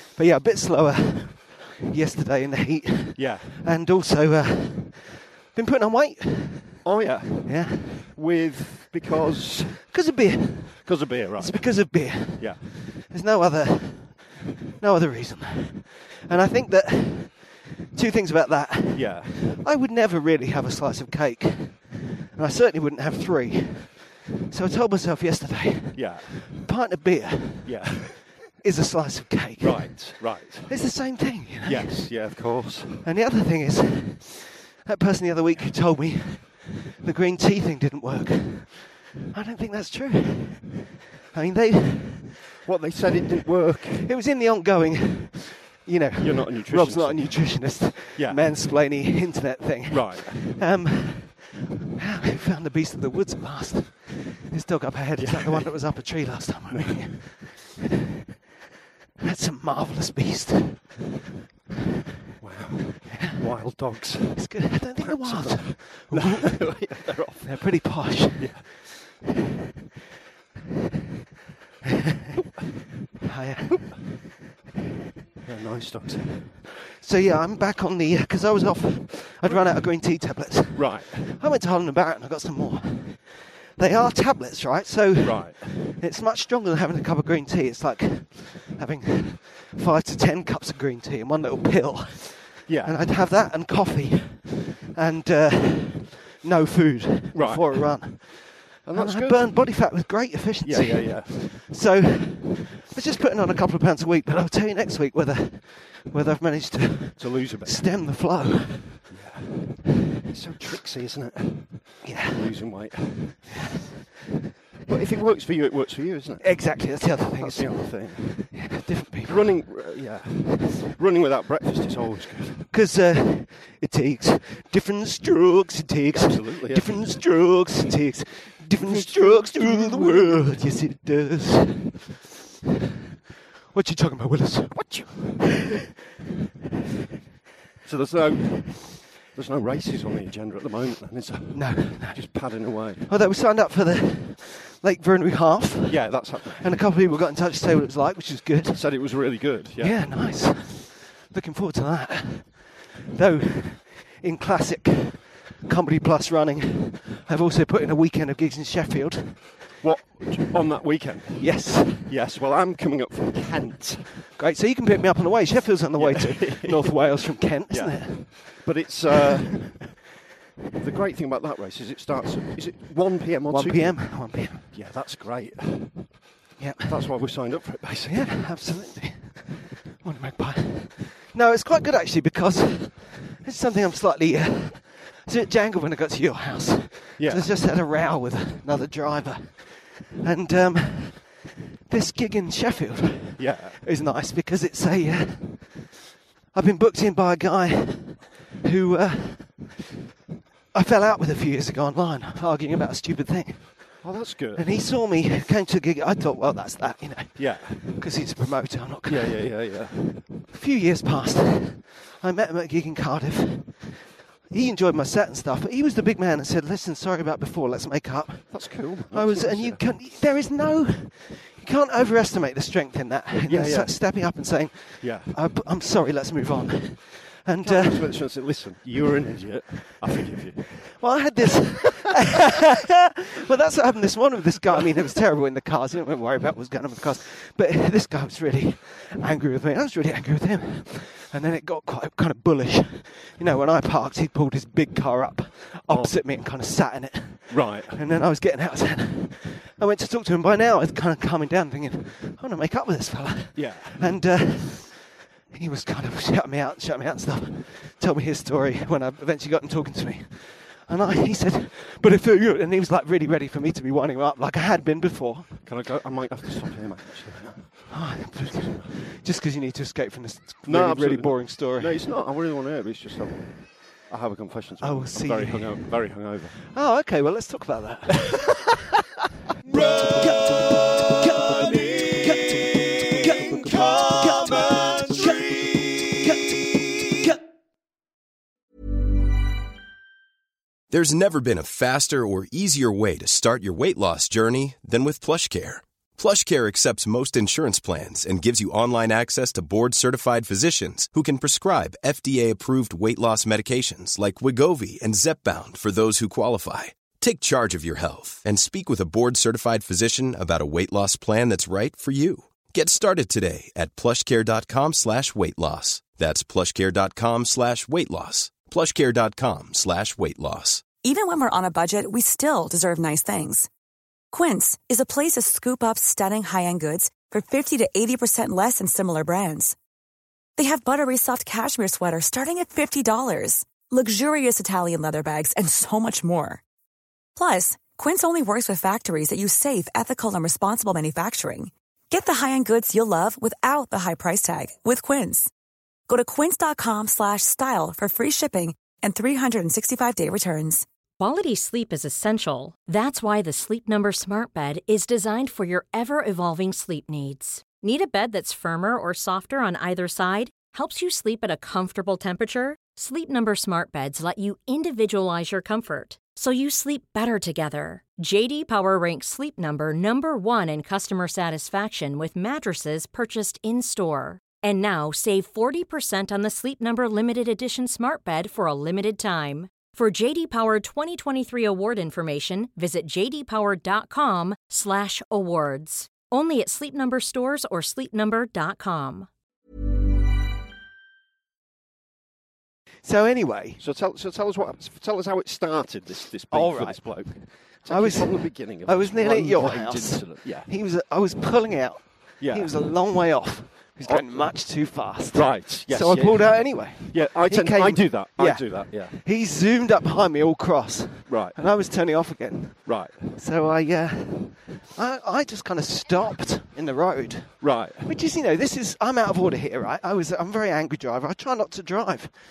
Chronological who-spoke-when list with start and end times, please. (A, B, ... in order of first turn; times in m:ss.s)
0:00.2-0:06.8 A
0:03.2-0:03.6 B
0:06.8-0:09.9 B
0:07.4-0:08.1 A
0:09.9-0:28.1 A
0:10.8-0:12.6 B
0:18.9-0:19.4 B
0:25.9-0:26.6 B
0:27.6-0:28.3 B
0:28.6-0:32.1 A
0:29.6-0:31.0 B
0:31.6-0:33.1 B
0:33.0-0:42.4 A
0:42.6-0:44.1 B
0:44.0-0:57.6 A
0:46.2-0:48.5 B
0:49.9-0:50.6 B
0:55.2-0:56.1 B
0:56.7-0:57.3 B
0:59.2-1:00.9 A
1:02.4-1:08.9 B
1:03.1-1:03.8 A
1:04.3-1:08.7 A
1:13.2-1:14.2 A
1:15.4-1:16.6 B
1:17.0-1:49.1 A
1:19.4-1:20.0 B
1:20.7-1:21.4 B
1:25.2-1:25.7 B
1:32.7-1:33.0 B
1:37.3-1:39.8 B
1:40.6-1:41.5 B
1:47.2-1:48.1 B
1:49.1-1:53.6 B
1:52.0-1:52.7 A
1:54.9-2:02.7 B
1:56.4-1:59.6 A
2:02.7-2:12.0 A
2:06.1-2:07.2 B
2:08.8-2:10.6 B
2:13.7-2:14.9 A
2:14.7-2:15.5 B
2:17.8-2:23.1 B
2:21.5-2:29.2 A
2:25.9-2:26.8 B
2:28.7-2:30.1 B
2:29.8-2:39.5 A
2:39.8-2:44.2 B
2:41.4-2:42.1 A
2:44.4-2:48.7 A
2:46.0-2:50.0 B
2:50.8-2:56.2 B
2:53.5-2:54.7 A
2:56.6-2:57.2 A
2:56.8-2:58.5 B
2:58.1-3:15.9 A
3:07.2-3:07.5 B
3:13.4-3:13.8 B
3:16.5-3:19.8 A
3:20.7-3:29.8 A
3:24.0-3:24.7 B
3:27.4-3:28.0 B
3:29.1-3:30.3 B
3:30.5-3:48.2 A
3:38.5-3:40.0 B
3:43.4-3:44.2 B
3:45.0-3:45.4 B
3:47.6-3:51.0 B
3:51.0-4:25.6 A
4:05.9-4:06.2 B
4:07.5-4:08.0 B
4:13.6-4:14.2 B
4:25.6-4:28.9 B
4:27.9-4:32.0 A
4:30.6-4:36.6 B
4:34.8-4:38.6 A
4:39.7-4:47.4 A
4:50.9-5:20.9 C
5:21.0-5:23.7 D
5:24.3-5:29.8 D
5:30.6-5:36.6 D
5:37.4-5:45.5 D
5:46.1-5:50.8 D
5:51.2-6:29.3 E
6:33.0-6:33.8 A
6:33.8-6:40.7 B
6:36.5-7:02.4 A
6:42.4-6:42.7 B
6:44.0-6:49.2 B
6:51.3-6:51.6 B
6:52.8-6:53.3 B
6:57.6-6:58.1 B